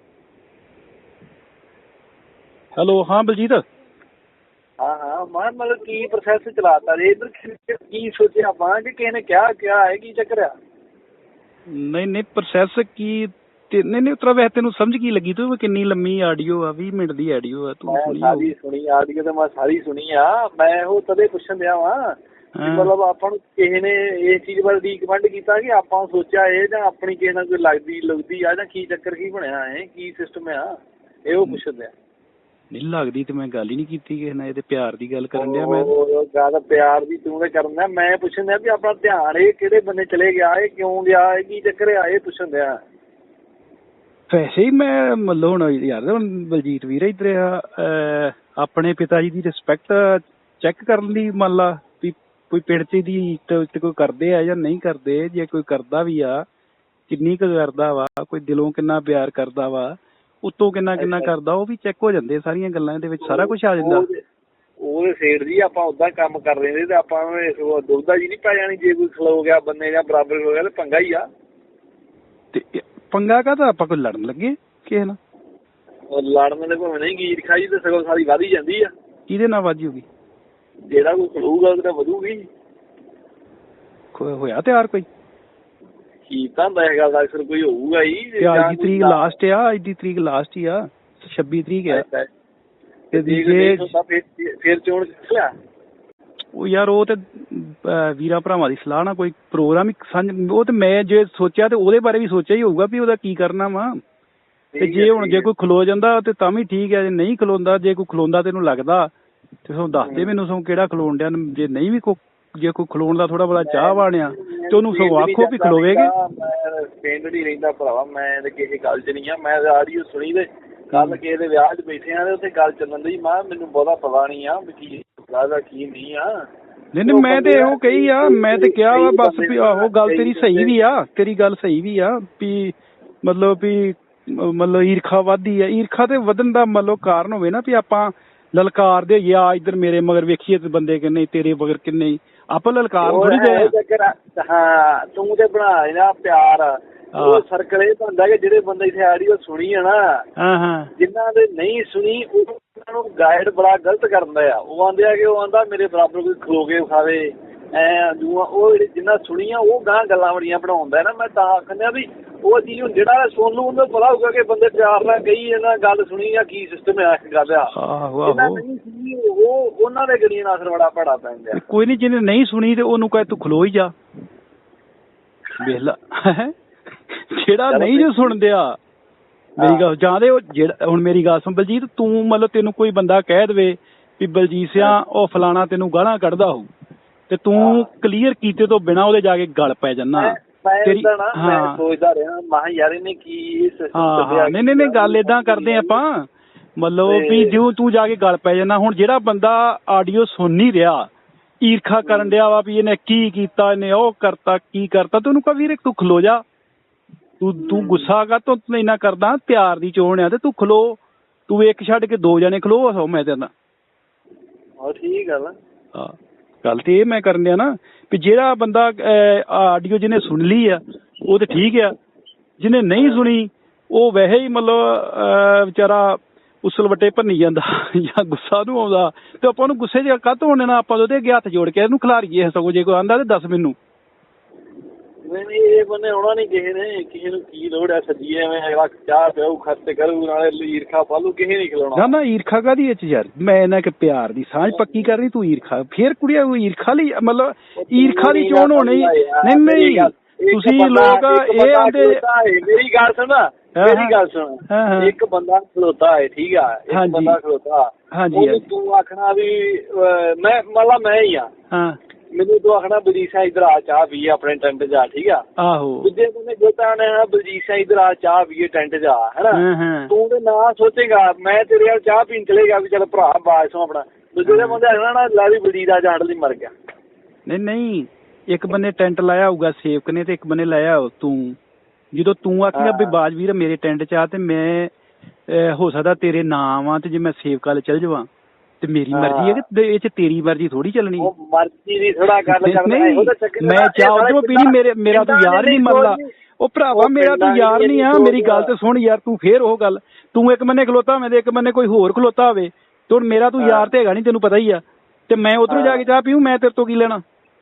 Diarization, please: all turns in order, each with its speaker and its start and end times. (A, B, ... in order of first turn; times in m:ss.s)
0:02.8-0:03.6 A
0:04.8-0:10.5 B
0:11.7-0:18.5 A
0:17.9-0:30.7 B
0:22.6-0:22.9 A
0:31.2-0:31.9 B
0:32.7-0:35.9 A
0:35.4-0:42.7 B
0:44.3-0:56.4 A
0:57.1-1:04.0 A
1:01.0-1:01.3 B
1:03.2-1:04.2 B
1:04.8-1:11.2 B
1:12.5-1:15.2 A
1:16.1-1:18.9 B
1:19.3-1:20.0 A
1:20.9-1:22.4 B
1:24.1-1:25.0 A
1:26.3-1:29.4 B
1:28.4-1:32.0 A
1:31.9-1:32.3 B
1:33.1-1:35.5 B
1:33.1-1:33.9 A
1:36.5-1:44.0 A
1:44.7-1:45.5 B
1:44.8-1:49.1 A
1:49.6-1:56.1 A
1:50.0-1:50.3 B
1:53.6-2:06.3 B
2:00.9-2:01.2 A
2:06.9-2:23.7 A
2:07.0-2:10.8 B
2:23.0-2:30.2 B
2:27.1-2:27.4 A
2:30.4-2:30.9 A
2:31.0-2:47.7 B
2:47.7-2:48.6 A
2:48.2-2:51.6 B
2:51.5-2:53.9 A
2:55.6-2:56.5 A
2:57.1-2:58.7 A
2:57.7-2:58.3 B
2:59.6-2:59.9 B
2:59.6-3:06.7 A
3:07.3-3:11.8 A
3:07.6-3:07.9 B
3:10.2-3:16.0 B
3:13.9-3:21.1 A
3:17.0-3:17.5 B
3:21.6-3:26.4 A
3:22.0-3:22.3 B
3:27.4-3:33.5 A
3:27.6-3:28.1 B
3:34.8-3:35.5 B
3:35.9-3:41.9 A
3:42.6-3:53.7 A
3:43.0-3:43.2 B
3:55.2-4:02.1 B
4:02.0-4:12.2 A
4:04.7-4:05.1 B
4:07.8-4:21.5 B
4:13.8-4:14.1 A
4:14.7-4:15.1 A
4:16.9-4:17.4 A
4:18.1-4:18.6 A
4:21.7-4:22.0 A
4:22.3-4:25.4 B
4:25.6-4:26.1 A
4:26.0-4:36.7 B
4:29.5-4:30.1 A
4:34.4-4:34.8 A
4:37.5-4:41.6 A
4:42.1-4:44.9 A
4:42.8-4:43.2 B
4:45.5-4:48.3 A
4:48.8-4:51.3 A
4:49.1-4:49.6 B
4:51.2-4:56.3 B
4:52.5-5:07.2 A
4:56.9-4:58.7 B
5:03.6-5:03.9 B
5:05.7-5:06.0 B